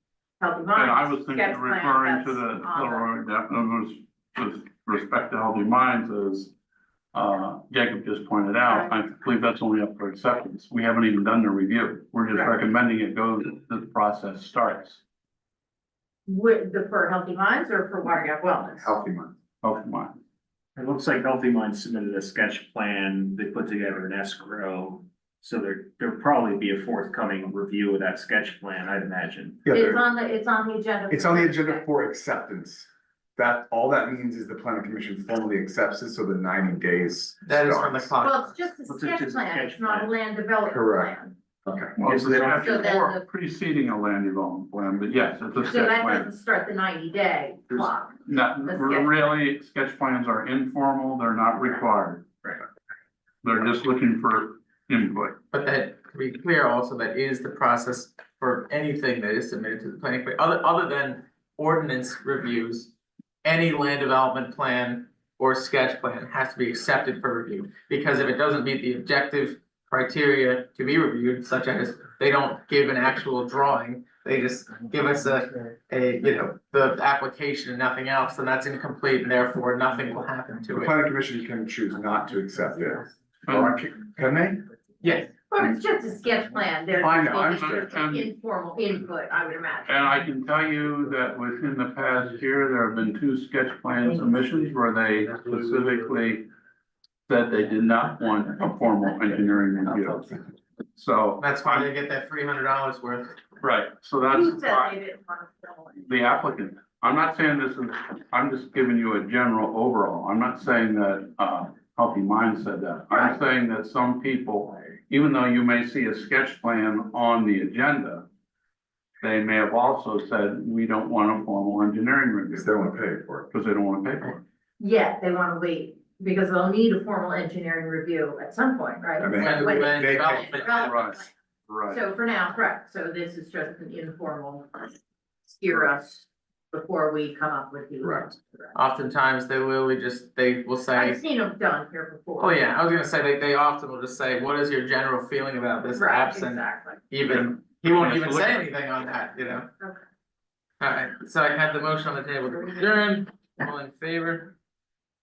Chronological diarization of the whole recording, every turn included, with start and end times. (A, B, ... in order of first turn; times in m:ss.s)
0:00.4-0:03.2 A
0:00.7-0:06.5 B
0:07.1-0:15.0 B
0:08.7-0:08.9 A
0:16.3-0:19.0 A
0:18.8-0:19.3 C
0:19.6-0:20.2 B
0:20.8-0:29.6 D
0:29.6-0:30.0 C
0:29.7-0:31.8 A
0:31.1-0:38.1 C
0:37.5-0:38.7 E
0:38.2-0:41.3 A
0:38.9-0:40.1 D
0:40.7-0:41.1 C
0:41.6-0:42.0 C
0:42.0-0:46.3 B
0:42.0-0:42.9 D
0:42.4-0:43.2 A
0:45.6-0:49.3 A
0:48.3-0:52.2 B
0:53.4-0:55.4 B
0:55.5-1:02.9 E
1:03.4-1:20.9 E
1:20.7-1:24.6 C
1:23.5-1:23.8 B
1:25.0-1:25.3 E
1:25.5-1:30.0 A
1:27.0-1:27.9 C
1:27.6-1:28.3 B
1:29.9-1:36.5 B
1:37.3-1:40.3 B
1:41.0-1:41.9 B
1:41.4-1:43.4 E
1:43.6-1:45.0 B
1:44.3-1:46.0 A
1:46.1-1:58.2 B
1:53.1-1:53.4 A
1:59.2-2:02.7 B
2:02.5-2:03.5 C
2:03.5-2:04.4 B
2:04.8-2:11.3 A
2:09.2-2:10.6 C
2:09.3-2:10.8 E
2:10.8-2:12.0 B
2:11.9-2:14.9 A
2:15.5-2:18.7 A
2:18.0-2:18.3 C
2:18.7-2:21.2 E
2:21.0-2:22.6 A
2:22.4-2:29.7 E
2:26.0-2:27.0 A
2:28.0-2:28.6 B
2:30.8-2:34.5 E